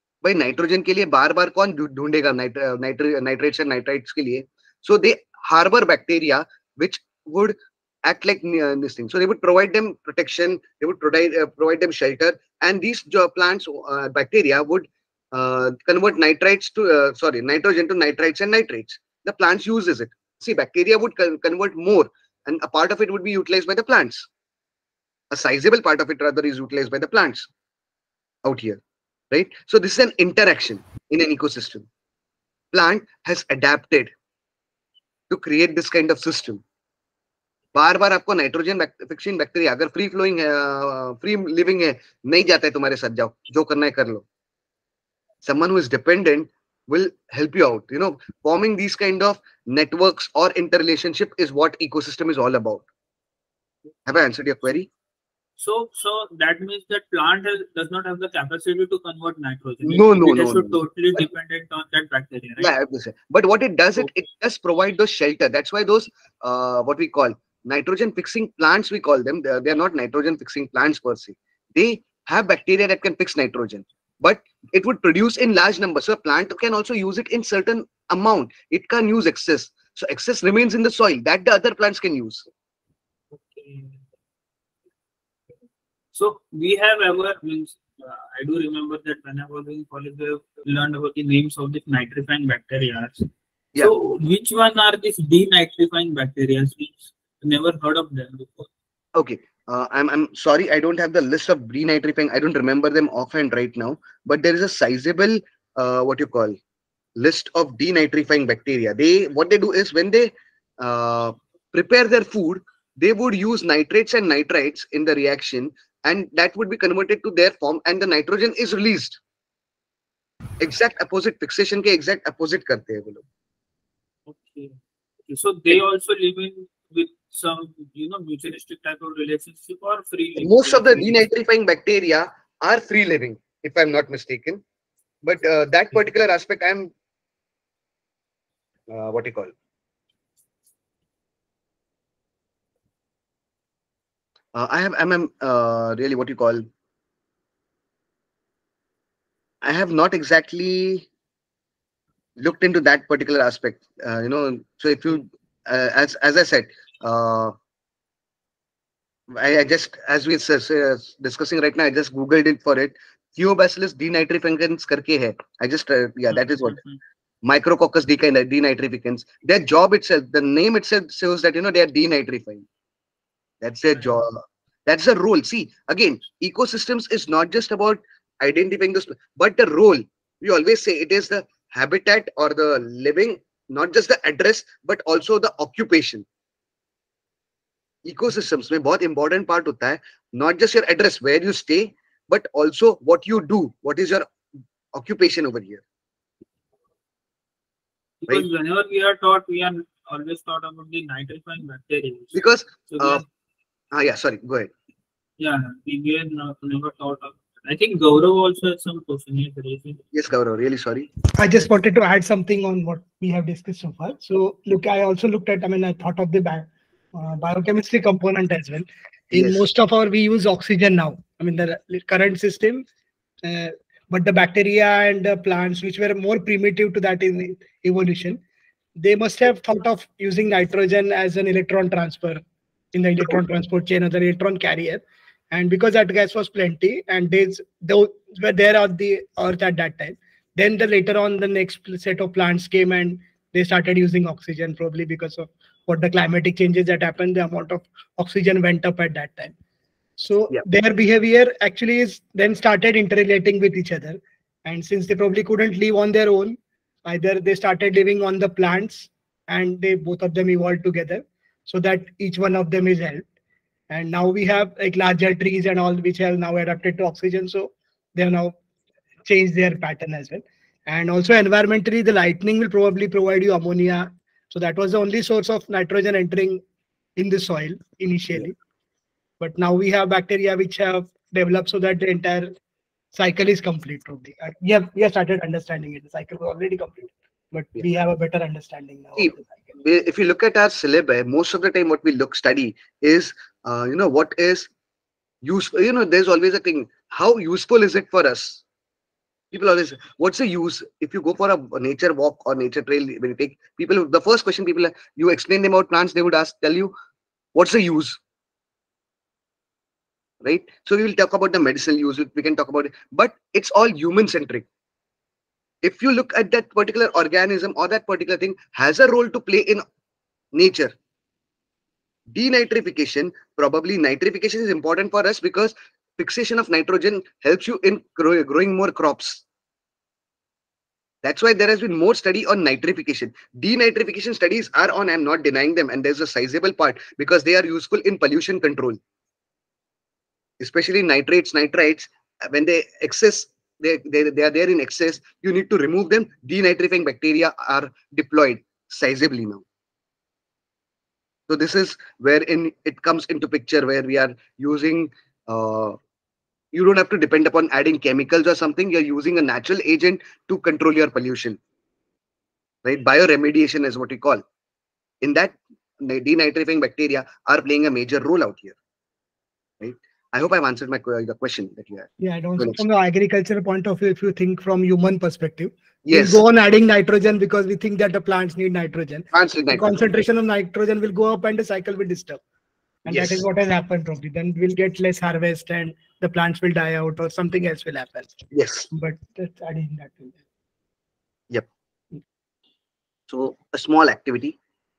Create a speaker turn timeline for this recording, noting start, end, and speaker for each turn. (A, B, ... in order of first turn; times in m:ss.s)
0:00.2-0:24.3 A
0:25.3-0:27.5 A
0:28.4-0:31.9 A
0:32.7-0:34.1 A
0:35.3-0:36.6 A
0:37.7-0:44.2 A
0:45.4-0:52.8 A
0:54.0-0:54.9 A
0:55.6-1:02.7 B
0:59.8-1:00.8 A
1:02.6-1:22.5 A
1:23.3-1:24.0 B
1:26.1-1:33.3 B
1:33.8-1:38.7 B
1:39.1-1:46.6 A
1:47.2-1:59.2 A
2:00.6-2:03.2 A
2:04.3-2:04.8 B
2:05.3-2:11.2 B
2:10.4-2:14.6 A
2:15.2-2:16.9 A
2:18.9-2:19.5 A
2:24.5-2:26.6 A
2:29.6-2:31.1 A
2:32.4-2:37.5 A
2:39.3-2:46.8 A
2:46.3-2:47.0 B
2:47.4-2:52.6 A
2:53.6-3:06.2 A
2:53.9-2:54.2 B
3:08.0-3:14.3 A
3:14.9-3:15.8 A
3:18.2-3:23.2 B
3:22.3-3:23.2 A
3:23.9-3:24.7 A
3:25.4-3:30.0 B
3:30.1-3:31.1 A
3:31.4-3:42.8 C
3:39.3-3:39.6 A
3:43.4-3:48.4 C
3:49.0-3:52.4 C
3:52.9-4:09.5 C
4:10.2-4:23.2 C
4:23.9-4:28.6 C
4:29.2-4:36.6 C
4:37.2-4:38.6 C
4:39.4-4:42.5 C
4:43.1-4:49.4 C
4:49.2-4:54.7 A
4:55.4-4:58.6 A
4:59.5-5:06.9 A
5:07.5-5:08.2 A
5:10.4-5:14.6 A
5:15.8-5:19.8 A
5:20.5-5:20.9 A
5:22.3-5:29.4 A
5:31.2-5:39.0 A
5:40.6-5:49.6 A
5:51.5-5:56.0 A
5:56.7-6:01.6 A
6:02.8-6:04.4 A
6:05.2-6:08.8 A
6:09.8-6:12.8 A
6:12.2-6:22.4 C
6:16.0-6:16.4 A
6:19.3-6:20.0 A
6:23.0-6:28.3 C
6:23.1-6:23.4 A
6:28.5-6:28.9 A
6:28.9-6:30.4 C
6:33.3-6:34.6 A